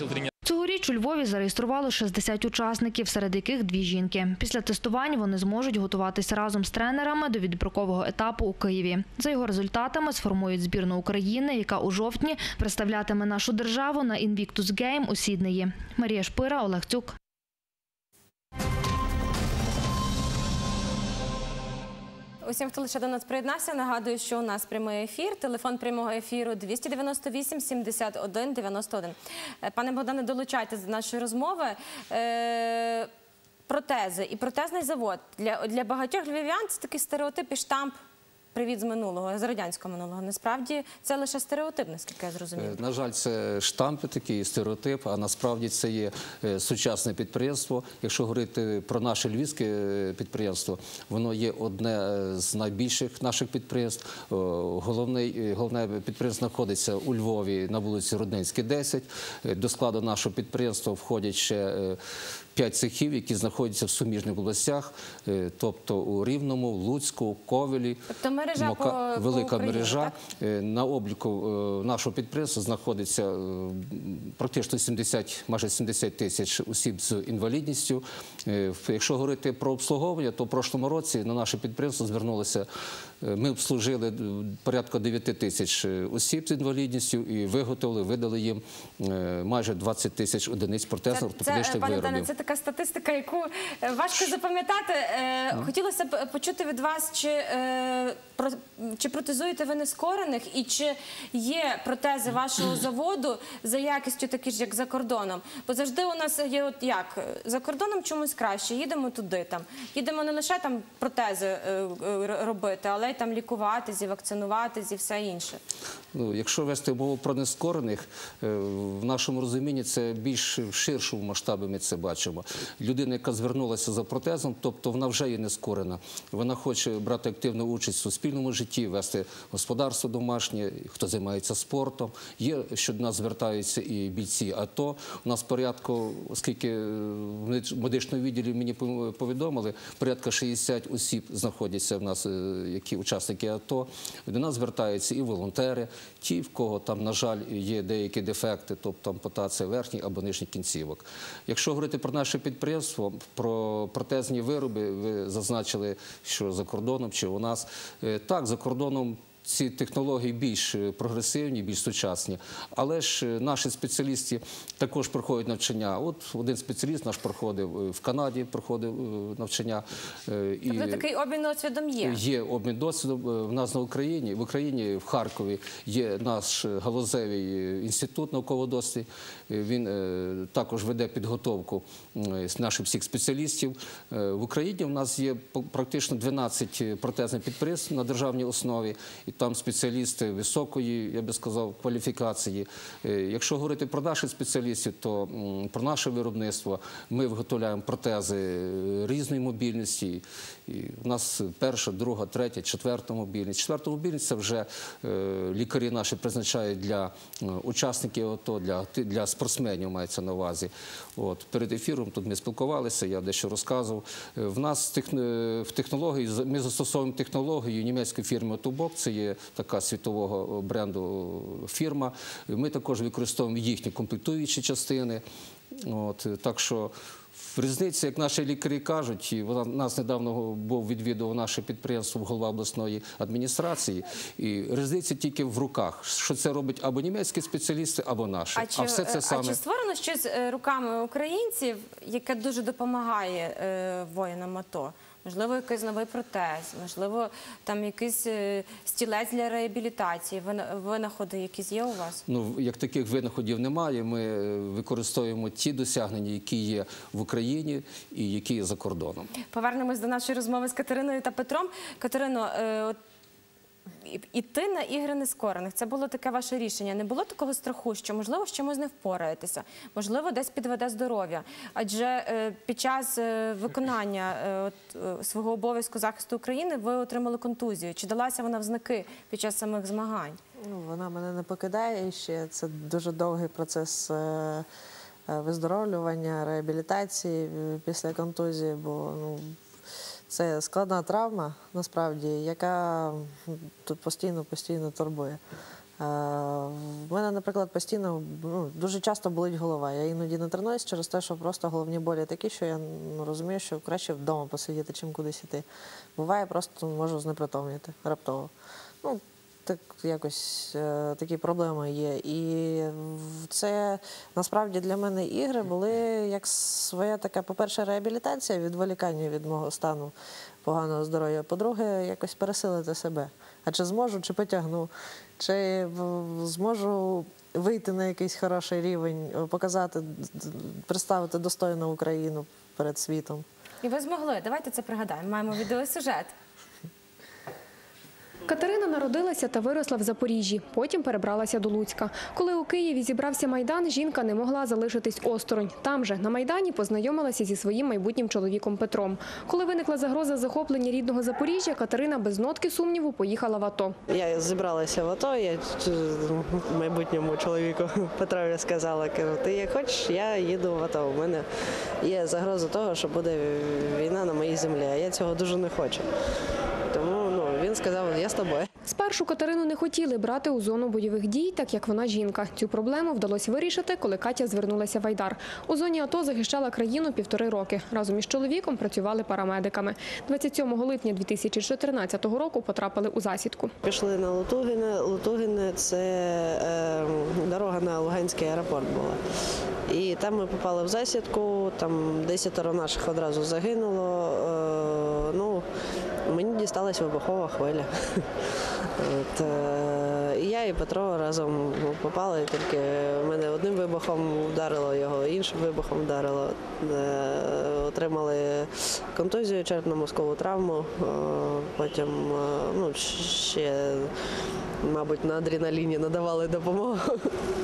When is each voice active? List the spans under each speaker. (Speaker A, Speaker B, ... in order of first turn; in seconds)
Speaker A: 0.4-17.1
Speaker B: 22.4-33.1, 33.7-38.0, 38.5-42.8, 68.1-70.1, 91.1-115.6, 170.7-172.2, 238.6-252.2, 259.5-263.0, 264.0-280.4, 333.8-336.3
Speaker C: 42.5-62.0, 62.5-82.7, 83.2-92.3, 116.1-171.0, 172.0-225.2, 225.7-239.6, 252.2-259.3
Speaker D: 280.6-284.6, 285.3-289.6, 290.3-295.4, 296.0-308.5, 309.0-333.4
Speaker E: 338.5-353.9, 368.8-383.7
Speaker F: 354.1-361.4, 362.0-366.0, 366.9-368.7, 383.8-389.2, 389.9-395.6, 396.3-398.2, 399.0-414.1, 414.8-417.3